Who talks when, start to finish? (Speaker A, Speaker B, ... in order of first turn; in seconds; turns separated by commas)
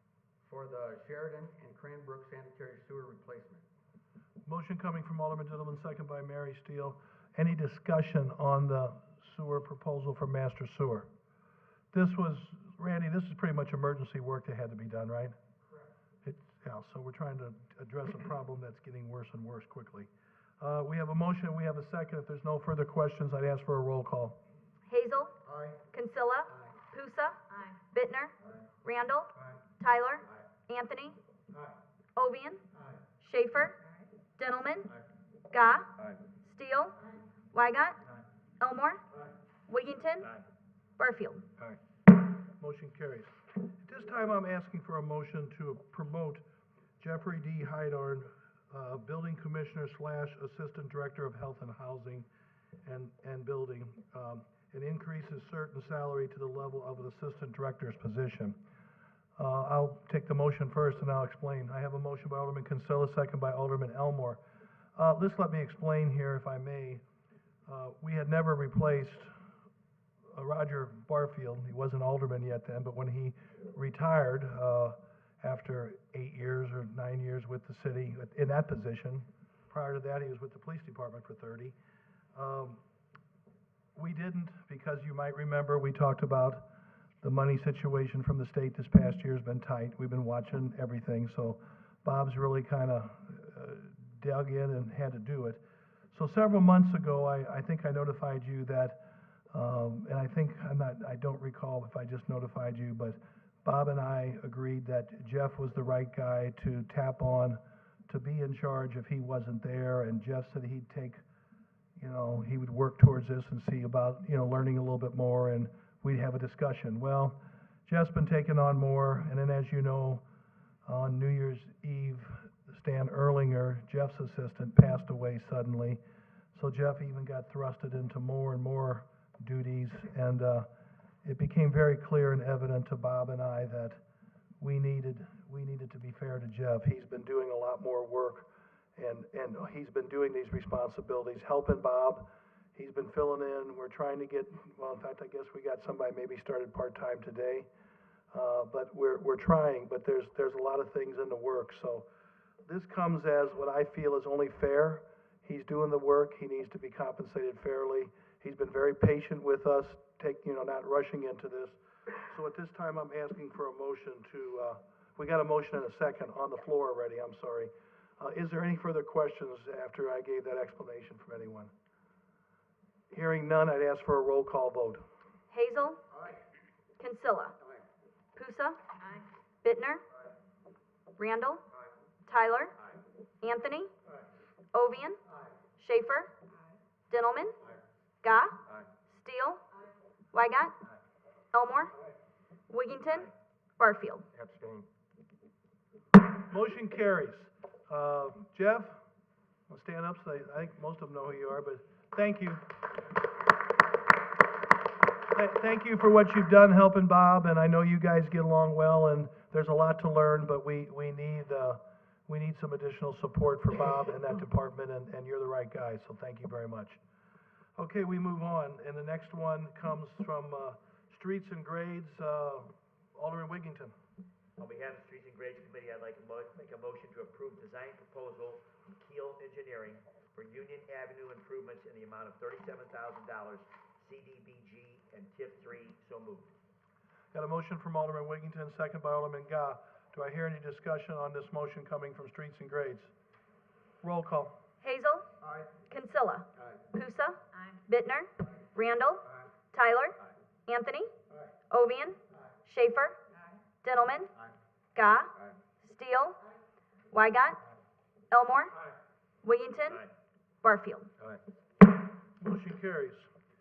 Speaker A: 0.4-3.7, Speaker B: 4.5-11.1, Speaker B: 11.9-15.4, Speaker B: 16.2-20.1, Speaker B: 20.6-24.4, Speaker C: 24.9-25.3, Speaker A: 25.4-25.9, Speaker C: 25.9-31.2, Speaker A: 26.5-26.8, Speaker C: 32.2-32.6, Speaker C: 33.2-33.8, Speaker C: 34.4-34.9, Speaker C: 35.5-35.9, Speaker C: 36.4-37.0, Speaker C: 37.5-38.0, Speaker C: 38.6-39.0, Speaker C: 39.7-40.3, Speaker C: 41.0-41.4, Speaker B: 42.6-46.4, Speaker B: 47.0-52.3, Speaker B: 52.9-58.6, Speaker B: 59.4-64.4, Speaker B: 65.0-67.0, Speaker B: 67.7-69.3, Speaker B: 70.3-81.8, Speaker B: 82.3-82.8, Speaker B: 84.0-86.7, Speaker B: 87.2-95.6, Speaker B: 96.1-99.0, Speaker B: 99.5-111.2, Speaker B: 112.0-120.2, Speaker B: 120.9-126.0, Speaker B: 126.5-130.7, Speaker B: 131.2-134.0, Speaker B: 134.6-147.7, Speaker B: 148.3-152.1, Speaker B: 152.7-171.7, Speaker B: 173.1-175.1, Speaker C: 175.5-176.0, Speaker A: 176.1-176.4, Speaker C: 177.0-177.6, Speaker A: 177.6-177.8, Speaker C: 178.3-178.8, Speaker C: 179.6-180.0, Speaker C: 181.2-181.6, Speaker C: 182.3-182.7, Speaker C: 183.4-183.9, Speaker C: 184.7-185.2, Speaker A: 185.3-185.6, Speaker C: 185.8-186.3, Speaker C: 187.1-187.6, Speaker C: 188.2-188.6, Speaker C: 189.1-189.6, Speaker C: 190.3-190.7, Speaker C: 191.5-191.9, Speaker C: 192.7-194.2, Speaker A: 194.3-194.9, Speaker B: 196.4-199.0, Speaker B: 199.7-202.6, Speaker B: 205.3-217.0, Speaker B: 217.8-223.9, Speaker D: 224.6-236.5, Speaker B: 237.3-243.1, Speaker B: 244.0-244.5, Speaker C: 244.8-245.3, Speaker A: 245.4-245.7, Speaker C: 245.9-251.1, Speaker A: 246.6-246.8, Speaker C: 251.7-253.2, Speaker C: 253.8-254.3, Speaker C: 254.9-256.4, Speaker C: 257.1-257.6, Speaker C: 258.3-258.8, Speaker C: 259.4-260.0, Speaker C: 260.6-261.1, Speaker B: 262.4-263.3